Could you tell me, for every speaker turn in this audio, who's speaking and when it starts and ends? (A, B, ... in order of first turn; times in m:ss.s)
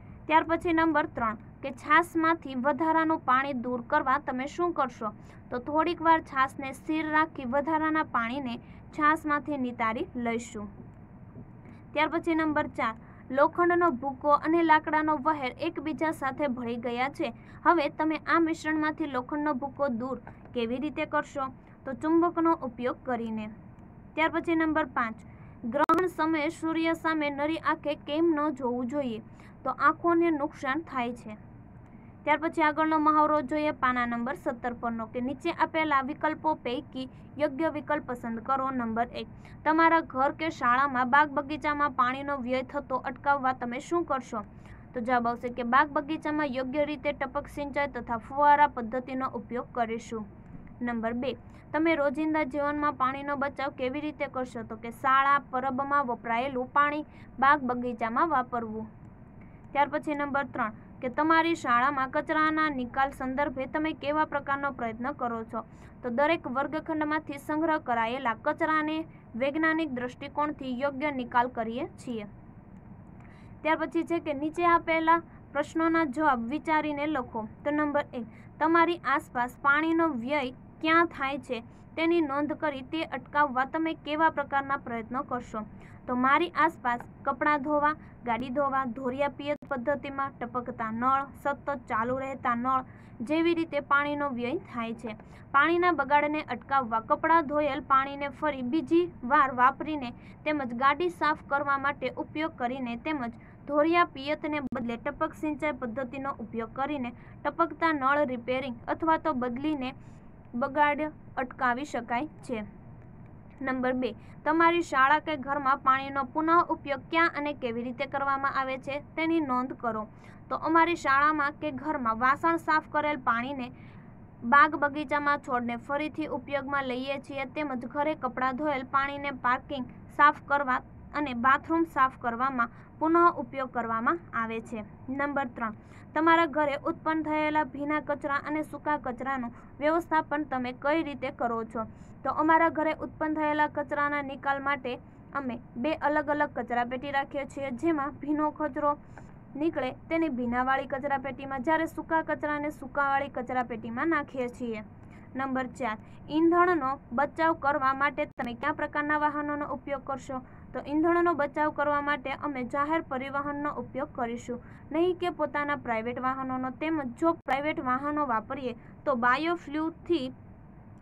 0:00.3-0:10.7 A
0:11.9-0:23.5 A
0:24.1-0:31.4 A
0:32.2-0:50.2 A
0:50.8-0:58.9 A
0:59.7-1:12.3 A
1:13.6-1:49.9 A
1:50.6-1:52.6 A
1:53.6-2:03.7 A
2:04.4-2:29.0 A
2:29.5-2:50.3 A